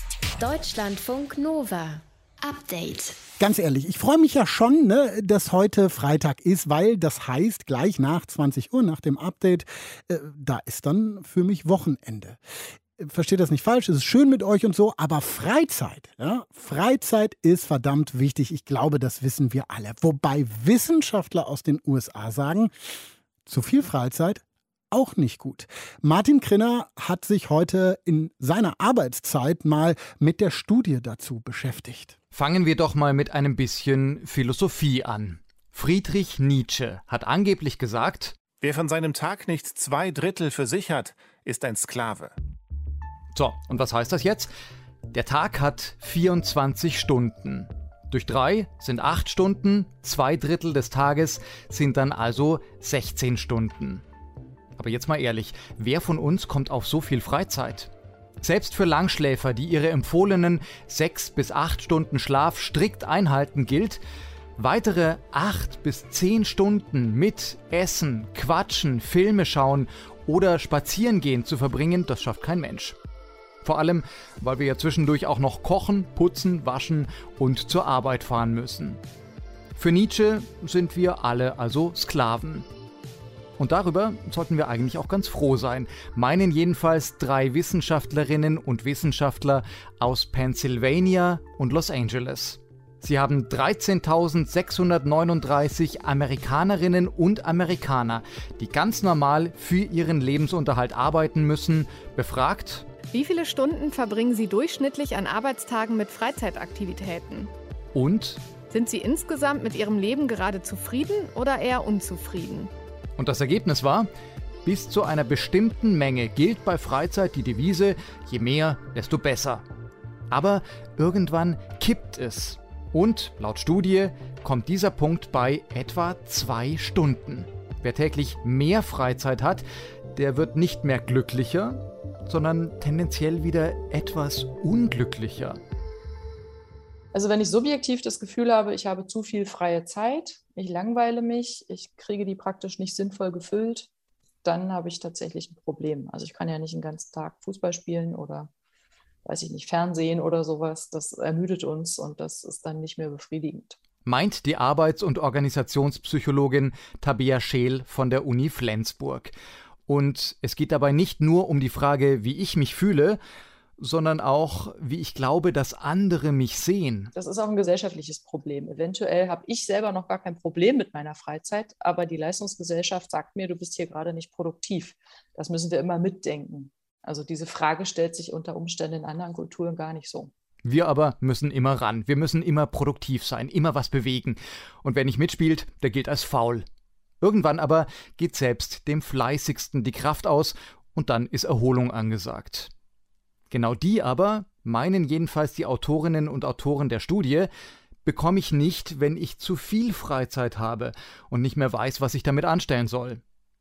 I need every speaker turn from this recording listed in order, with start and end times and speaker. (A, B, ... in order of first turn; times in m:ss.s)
0:00.4-0:03.2 A
0:03.4-0:12.4 B
0:13.0-0:22.7 B
0:23.4-0:32.2 B
0:32.3-0:38.4 C
0:38.6-0:42.3 D
0:43.3-0:44.5 C
0:45.1-0:54.0 C
0:54.8-1:04.0 C
1:04.6-1:13.0 C
1:13.6-1:19.0 C
1:19.8-1:22.7 C
1:23.6-1:42.9 C
1:43.1-1:47.5 E
1:47.9-1:48.4 C
1:48.7-1:52.7 E
1:53.2-1:54.1 C
1:54.6-1:59.6 C
2:00.3-2:15.6 C
2:17.1-2:23.9 F
2:24.4-2:28.5 F
2:29.2-2:33.8 F
2:34.0-2:39.3 C
2:39.9-2:43.2 C
2:43.8-2:47.1 C
2:47.1-3:00.3 F
3:00.6-3:06.6 C
3:07.2-3:12.7 C
3:13.5-3:17.5 C
3:18.0-3:23.2 C